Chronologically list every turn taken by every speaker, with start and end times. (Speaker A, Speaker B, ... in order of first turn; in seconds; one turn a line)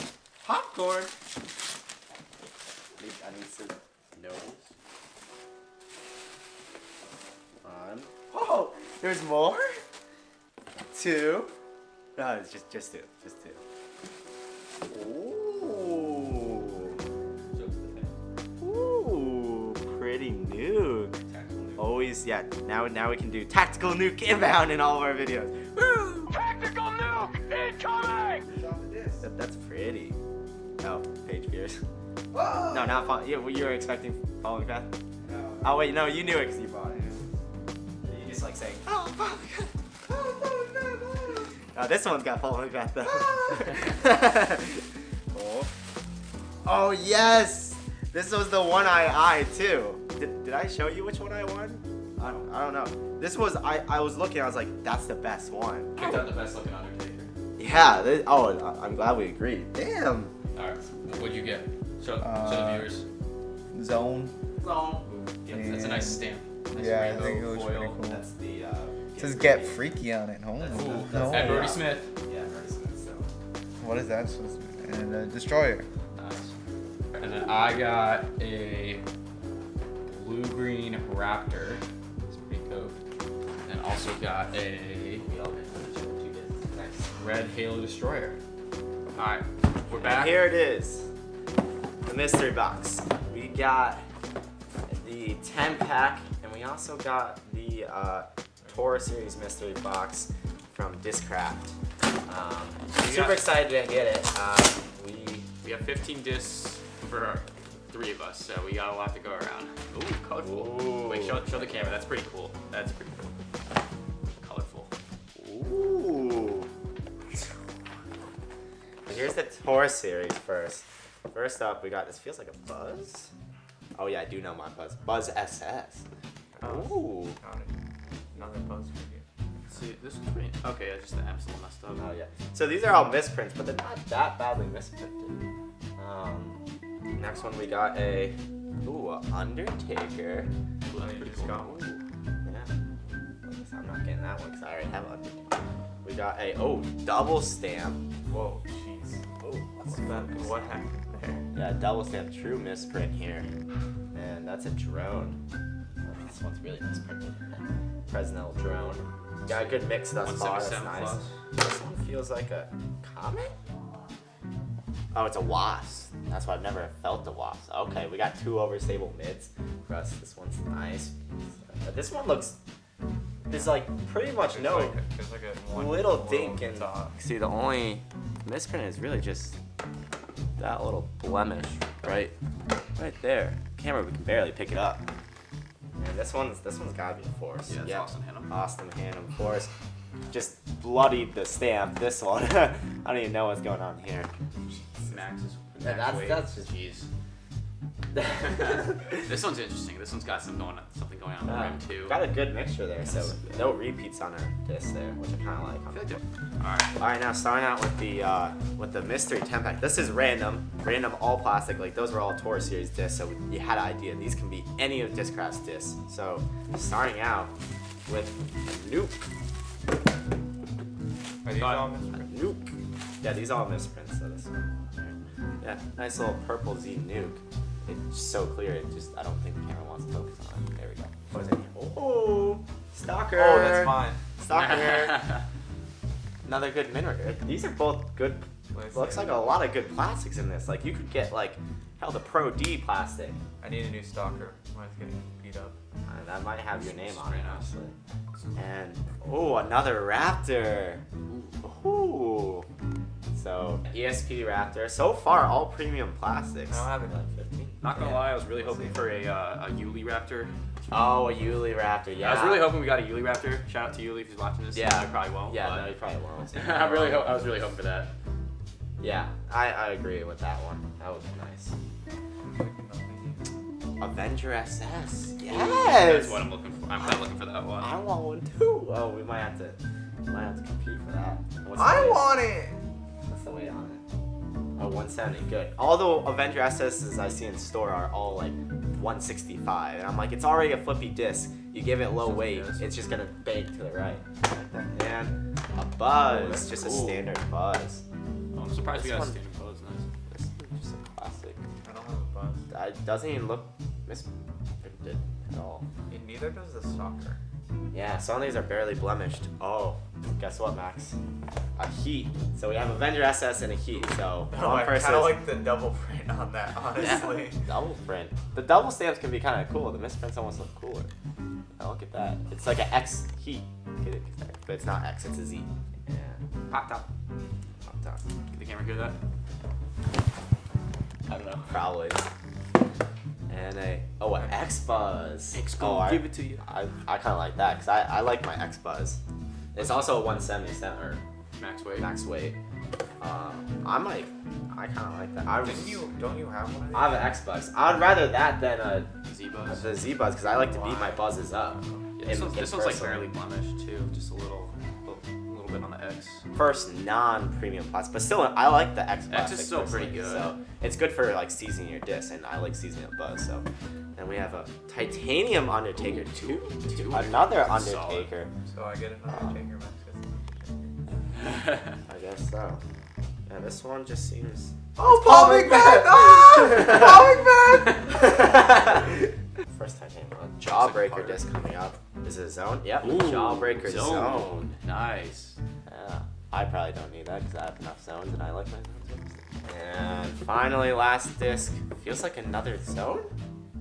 Speaker A: 0.4-1.1
Speaker A: 3.0-4.6
Speaker A: 7.6-9.8
Speaker A: 10.9-11.5
Speaker A: 12.2-13.6
Speaker A: 14.9-16.9
Speaker B: 17.5-18.1
Speaker A: 18.6-21.2
Speaker B: 21.3-22.0
Speaker A: 21.8-26.3
Speaker B: 26.3-28.4
Speaker C: 28.5-29.2
Speaker A: 29.2-30.2
Speaker A: 30.8-31.8
Speaker C: 32.3-32.9
Speaker A: 32.6-34.9
Speaker C: 35.2-35.9
Speaker A: 35.6-37.2
Speaker A: 38.0-39.7
Speaker C: 40.1-41.4
Speaker A: 41.7-45.7
Speaker A: 46.6-56.0
Speaker B: 56.0-57.3
Speaker A: 57.6-60.3
Speaker B: 60.5-63.0
Speaker C: 62.3-62.8
Speaker C: 63.7-64.3
Speaker A: 64.5-65.0
Speaker B: 65.1-68.0
Speaker C: 65.5-66.0
Speaker C: 66.7-68.2
Speaker A: 66.9-67.4
Speaker A: 68.0-69.8
Speaker C: 69.2-71.7
Speaker A: 70.6-73.3
Speaker B: 70.7-72.1
Speaker C: 73.8-75.8
Speaker B: 76.1-76.5
Speaker B: 77.2-79.0
Speaker B: 80.0-83.0
Speaker B: 83.6-85.2
Speaker A: 85.2-87.1
Speaker B: 87.2-88.4
Speaker B: 89.1-90.4
Speaker A: 89.9-91.1
Speaker A: 92.0-94.0
Speaker A: 94.9-101.7
Speaker A: 102.2-105.5
Speaker B: 102.9-103.5
Speaker B: 105.6-113.3
Speaker A: 110.4-112.0
Speaker B: 114.4-114.9
Speaker A: 115.3-116.7
Speaker A: 119.1-123.3
Speaker A: 124.0-126.0
Speaker A: 126.6-127.3
Speaker C: 126.6-127.7
Speaker C: 128.3-129.2
Speaker B: 129.7-132.1
Speaker A: 132.0-135.4
Speaker A: 136.0-136.6
Speaker A: 137.2-140.5
Speaker B: 140.9-142.0
Speaker C: 140.9-141.9
Speaker A: 142.4-142.7
Speaker A: 143.4-148.1
Speaker C: 148.3-149.2
Speaker A: 149.4-150.8
Speaker C: 149.8-151.4
Speaker A: 151.5-153.5
Speaker A: 154.1-155.4
Speaker A: 156.0-163.5
Speaker B: 159.4-161.3
Speaker A: 165.1-172.6
Speaker A: 173.5-175.0
Speaker C: 174.4-177.2
Speaker A: 175.7-179.6
Speaker A: 180.6-182.3
Speaker A: 182.9-185.0
Speaker A: 186.0-189.7
Speaker B: 187.7-188.5
Speaker A: 190.3-194.3
Speaker A: 194.9-195.2
Speaker B: 195.0-197.1
Speaker A: 195.8-196.7
Speaker A: 198.1-199.2
Speaker B: 199.2-202.2
Speaker A: 201.4-206.2
Speaker B: 203.0-203.5
Speaker B: 205.9-207.0
Speaker A: 206.9-217.5
Speaker A: 218.1-219.2
Speaker C: 221.4-222.3
Speaker B: 221.5-221.9
Speaker A: 222.2-235.3
Speaker C: 233.3-234.2
Speaker A: 236.4-243.4
Speaker C: 238.7-239.5
Speaker C: 243.6-245.7
Speaker A: 246.1-247.9
Speaker B: 246.8-247.7
Speaker B: 248.3-248.6
Speaker A: 248.6-251.0
Speaker A: 251.6-252.7
Speaker A: 253.3-257.8
Speaker C: 256.7-257.2
Speaker B: 257.8-260.5
Speaker C: 257.9-259.1
Speaker A: 260.9-262.7
Speaker B: 262.2-265.9
Speaker A: 264.7-267.5
Speaker B: 266.5-268.1
Speaker A: 269.0-271.7
Speaker C: 272.4-273.5
Speaker A: 274.0-276.4
Speaker B: 275.4-278.0
Speaker A: 277.8-282.4
Speaker C: 281.7-282.8
Speaker A: 283.3-284.0
Speaker A: 284.8-294.2
Speaker B: 292.3-292.8
Speaker C: 294.5-294.9
Speaker A: 294.9-298.0
Speaker B: 296.2-297.3
Speaker B: 298.5-300.1
Speaker A: 298.9-299.4
Speaker A: 300.3-301.6
Speaker C: 301.8-302.7
Speaker A: 302.7-304.3
Speaker A: 304.8-305.8
Speaker C: 306.1-307.4
Speaker A: 307.9-311.1
Speaker A: 311.8-315.4
Speaker C: 314.5-317.6
Speaker A: 317.6-321.1
Speaker A: 321.8-326.4
Speaker B: 326.7-327.0
Speaker A: 327.9-328.2
Speaker B: 328.5-329.2
Speaker B: 331.3-331.9
Speaker A: 331.7-332.2
Speaker A: 333.5-339.2
Speaker B: 335.5-336.6
Speaker A: 339.7-341.2
Speaker B: 339.8-340.2
Speaker B: 341.6-342.1
Speaker A: 342.0-342.6
Speaker A: 343.2-346.0
Speaker C: 345.6-347.3
Speaker A: 346.9-349.1
Speaker B: 349.2-350.1
Speaker A: 349.7-353.3
Speaker C: 350.5-352.0
Speaker B: 352.2-356.4
Speaker A: 356.5-368.5
Speaker B: 359.3-360.5
Speaker B: 365.9-368.3
Speaker C: 368.6-370.8
Speaker A: 369.3-369.6
Speaker B: 371.5-371.8
Speaker A: 372.1-372.8
Speaker A: 373.5-377.2
Speaker C: 375.0-378.0
Speaker A: 378.0-384.7
Speaker B: 380.6-381.4
Speaker B: 383.0-385.6
Speaker A: 385.9-393.3